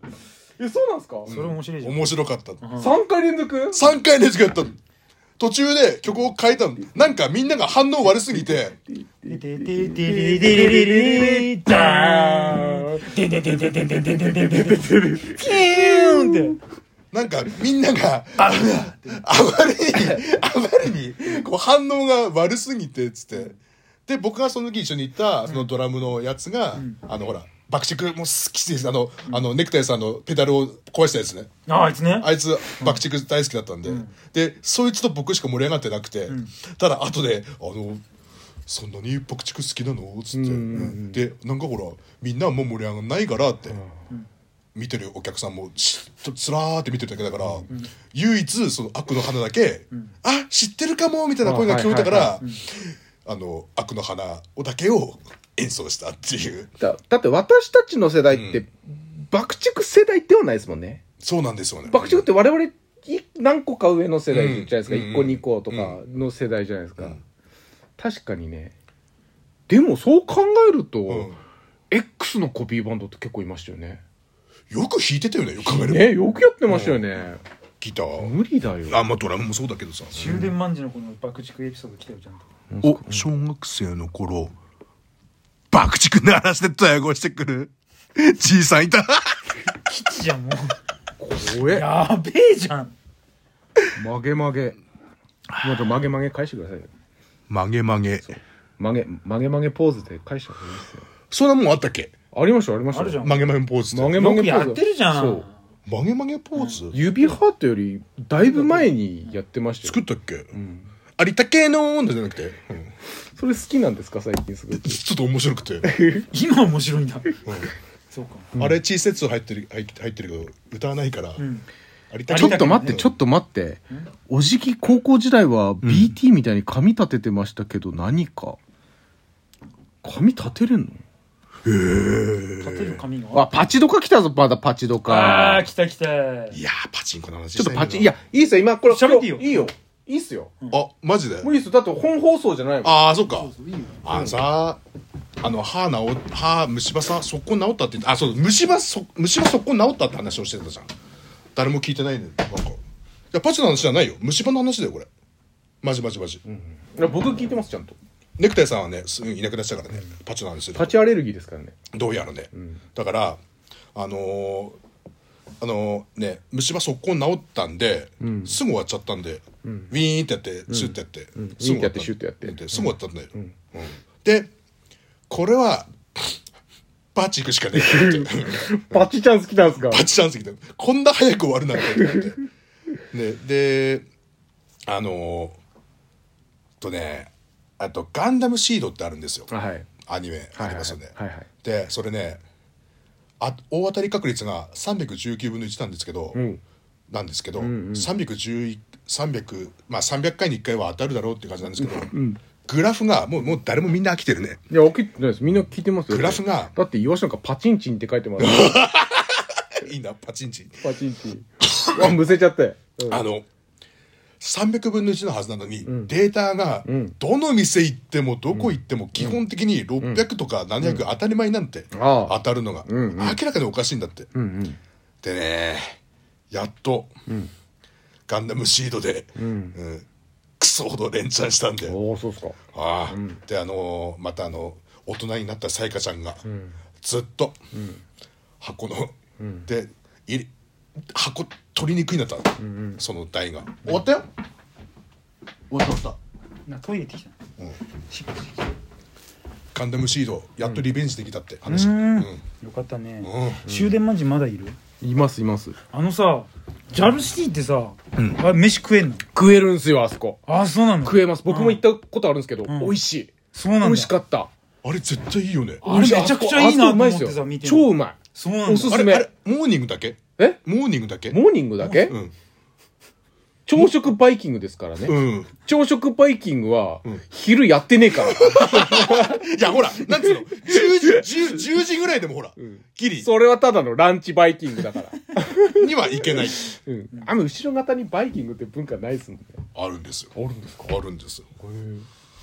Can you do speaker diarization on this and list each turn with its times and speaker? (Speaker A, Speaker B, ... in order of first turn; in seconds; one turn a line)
Speaker A: 0.6-1.3
Speaker B: 1.3-3.0
Speaker C: 1.3-2.6
Speaker A: 2.8-3.9
Speaker C: 3.7-4.8
Speaker C: 5.4-8.8
Speaker A: 8.2-16.6
Speaker B: 9.2-16.6
Speaker C: 17.1-23.6
Speaker B: 18.4-19.3
Speaker C: 24.1-31.5
Speaker B: 31.7-33.0
Speaker C: 32.2-38.0
Speaker B: 33.9-34.1
Speaker B: 36.3-36.5
Speaker C: 38.7-43.8
Speaker A: 40.3-41.3
Speaker A: 43.7-44.0
Speaker C: 44.8-56.7
Speaker A: 47.4-47.6
Speaker A: 51.4-52.4
Speaker A: 56.8-61.0
Speaker C: 58.3-58.6
Speaker C: 61.2-62.3
Speaker A: 61.9-67.2
Speaker C: 64.3-66.0
Speaker A: 68.0-68.8
Speaker A: 69.7-71.4
Speaker C: 71.1-71.4
Speaker A: 71.9-74.0
Speaker C: 74.7-77.0
Speaker A: 75.6-77.4
Speaker C: 77.8-78.3
Speaker A: 78.2-79.0
Speaker C: 78.9-80.5
Speaker B: 80.1-82.5
Speaker A: 80.2-80.5
Speaker A: 82.7-83.3
Speaker C: 82.8-84.5
Speaker C: 85.7-89.6
Speaker B: 89.9-90.8
Speaker A: 91.2-91.9
Speaker B: 91.6-92.9
Speaker A: 94.0-94.8
Speaker C: 95.5-96.1
Speaker A: 95.6-96.9
Speaker C: 97.5-98.4
Speaker A: 98.3-101.1
Speaker C: 101.3-102.1
Speaker A: 102.3-103.3
Speaker B: 102.9-103.5
Speaker C: 103.2-104.2
Speaker A: 103.9-105.5
Speaker B: 104.1-105.5
Speaker C: 105.9-107.0
Speaker B: 106.6-107.4
Speaker A: 106.9-110.0
Speaker B: 108.4-109.3
Speaker C: 109.8-110.5
Speaker A: 110.5-110.9
Speaker C: 111.2-112.9
Speaker A: 113.3-115.0
Speaker C: 114.7-115.9
Speaker A: 115.8-116.3
Speaker B: 116.3-117.4
Speaker C: 117.5-117.7
Speaker B: 118.1-118.5
Speaker A: 118.5-118.8
Speaker C: 118.6-121.5
Speaker B: 121.4-121.7
Speaker C: 122.1-123.1
Speaker B: 122.3-123.0
Speaker A: 122.3-128.6
Speaker C: 125.8-126.1
Speaker A: 130.0-131.0
Speaker C: 131.7-133.0
Speaker B: 132.6-133.6
Speaker A: 133.3-135.7
Speaker B: 135.1-136.6
Speaker C: 136.5-138.2
Speaker A: 137.6-140.6
Speaker B: 138.9-139.7
Speaker C: 140.7-141.5
Speaker A: 141.4-143.0
Speaker C: 142.8-143.5
Speaker B: 143.3-144.1
Speaker C: 144.0-144.8
Speaker A: 144.1-144.4
Speaker C: 145.4-150.9
Speaker C: 151.6-152.8
Speaker C: 153.3-155.1
Speaker C: 155.8-156.4
Speaker A: 156.4-158.0
Speaker C: 158.4-161.0
Speaker A: 160.8-161.8
Speaker C: 161.9-163.4
Speaker A: 162.5-162.8
Speaker C: 163.9-164.8
Speaker C: 165.6-174.5
Speaker A: 168.2-168.6
Speaker A: 169.6-169.9
Speaker A: 170.7-173.6
Speaker C: 175.3-176.4
Speaker C: 177.2-179.1
Speaker A: 177.7-180.1
Speaker C: 179.9-182.4
Speaker A: 181.8-182.3
Speaker C: 183.1-184.1
Speaker C: 184.9-185.6
Speaker C: 186.8-189.5
Speaker A: 189.5-189.9
Speaker C: 190.1-192.4
Speaker A: 190.6-191.5
Speaker C: 193.4-196.4
Speaker A: 196.3-196.6
Speaker C: 197.1-202.1
Speaker A: 197.6-198.1
Speaker A: 201.8-202.4
Speaker C: 202.7-204.7
Speaker A: 204.7-208.9
Speaker C: 206.1-206.8
Speaker C: 208.4-210.8
Speaker A: 210.8-213.2
Speaker C: 211.7-212.0
Speaker C: 213.1-213.5
Speaker C: 214.4-224.3
Speaker A: 215.9-216.1
Speaker A: 216.8-217.2
Speaker A: 218.5-219.4
Speaker A: 220.0-220.3
Speaker A: 220.8-221.1
Speaker A: 221.9-223.4
Speaker A: 224.3-224.8
Speaker C: 225.2-226.0
Speaker C: 226.5-227.1
Speaker C: 228.3-230.1
Speaker A: 229.4-229.8
Speaker C: 230.6-231.9
Speaker A: 231.9-232.6
Speaker C: 232.7-236.4
Speaker A: 233.1-233.4
Speaker A: 236.4-236.8
Speaker C: 237.0-237.6
Speaker A: 237.7-238.0
Speaker C: 238.6-239.2
Speaker A: 239.4-239.7
Speaker C: 239.7-240.5
Speaker C: 241.1-244.3
Speaker A: 242.6-243.0
Speaker C: 245.7-246.2
Speaker B: 246.7-247.3
Speaker B: 248.1-248.7
Speaker C: 249.7-252.4
Speaker B: 251.7-254.8
Speaker C: 253.2-253.7
Speaker A: 253.7-254.0
Speaker A: 255.0-255.8
Speaker B: 255.9-259.2
Speaker C: 258.2-258.4
Speaker A: 259.3-260.4
Speaker B: 260.5-261.8
Speaker A: 261.0-264.5
Speaker B: 262.7-263.0
Speaker B: 263.5-264.1
Speaker C: 264.8-265.9
Speaker B: 265.8-269.0
Speaker A: 265.8-269.3
Speaker C: 268.8-271.4
Speaker A: 271.3-272.2
Speaker B: 271.8-272.1
Speaker C: 272.1-272.3
Speaker A: 273.7-281.7
Speaker C: 273.8-274.0
Speaker C: 275.1-275.5
Speaker C: 278.1-283.3
Speaker A: 282.6-289.6
Speaker C: 285.6-286.8
Speaker C: 289.7-290.3
Speaker A: 290.4-290.9
Speaker C: 290.8-291.5
Speaker A: 291.6-292.1